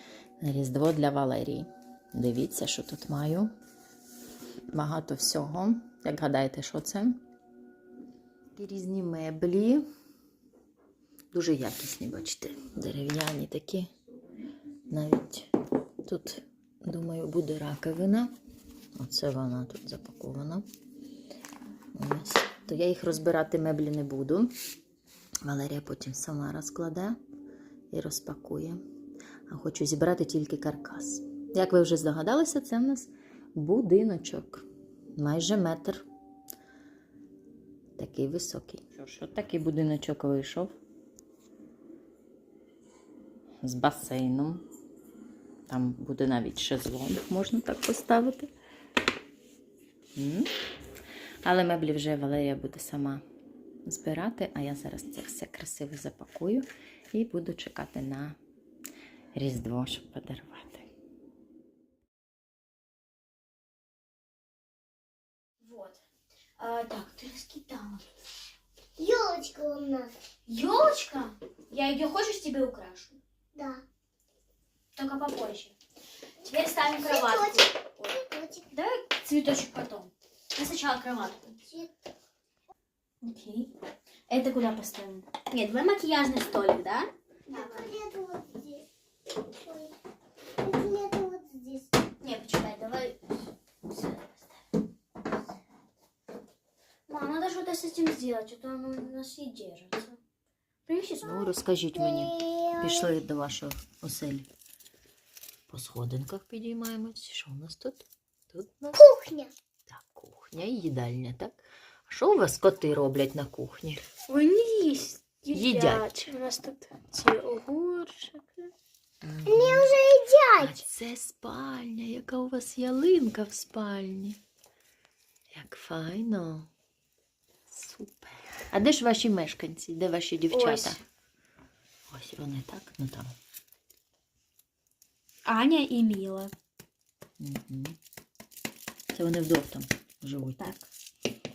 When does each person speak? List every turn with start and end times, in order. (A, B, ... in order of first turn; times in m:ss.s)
0:00.4-0:03.5 A
0:04.7-0:07.2 A
0:08.6-0:09.8 A
0:11.3-0:13.9 A
0:14.9-0:15.5 A
0:16.0-0:18.3 A
0:19.0-0:20.6 A
0:21.9-0:24.5 A
0:25.4-0:27.2 A
0:27.9-0:28.8 A
0:29.5-0:34.6 A
0:35.2-0:36.0 A
0:38.0-0:40.7 A
0:43.6-0:44.6 A
0:45.7-0:48.5 A
0:50.2-0:50.5 A
0:51.4-0:53.2 A
0:53.8-0:58.4 A
0:59.3-1:00.9 A
1:05.6-1:06.0 B
1:06.6-1:08.0 B
1:09.0-1:10.1 C
1:10.5-1:13.2 B
1:13.5-1:13.8 C
1:15.0-1:15.7 B
1:16.4-1:18.2 B
1:16.9-1:18.7 C
1:18.7-1:21.6 B
1:23.2-1:23.7 B
1:24.3-1:27.9 B
1:27.5-1:28.8 C
1:29.5-1:29.9 C
1:30.6-1:32.0 C
1:32.2-1:33.3 B
1:33.8-1:34.6 B
1:37.1-1:40.2 B
1:40.9-1:41.5 B
1:41.2-1:44.5 A
1:42.0-1:43.1 C
1:45.7-1:49.0 A
1:49.0-1:49.5 C
1:49.9-1:54.0 A
1:54.3-1:58.7 B
1:55.5-1:56.1 A
1:59.2-2:00.0 A
1:59.4-2:00.8 C
2:00.6-2:04.4 A
2:05.5-2:06.7 A
2:07.7-2:11.0 A
2:10.5-2:11.0 B
2:12.1-2:13.3 A
2:15.4-2:16.5 B
2:17.4-2:18.0 A
2:19.1-2:20.7 A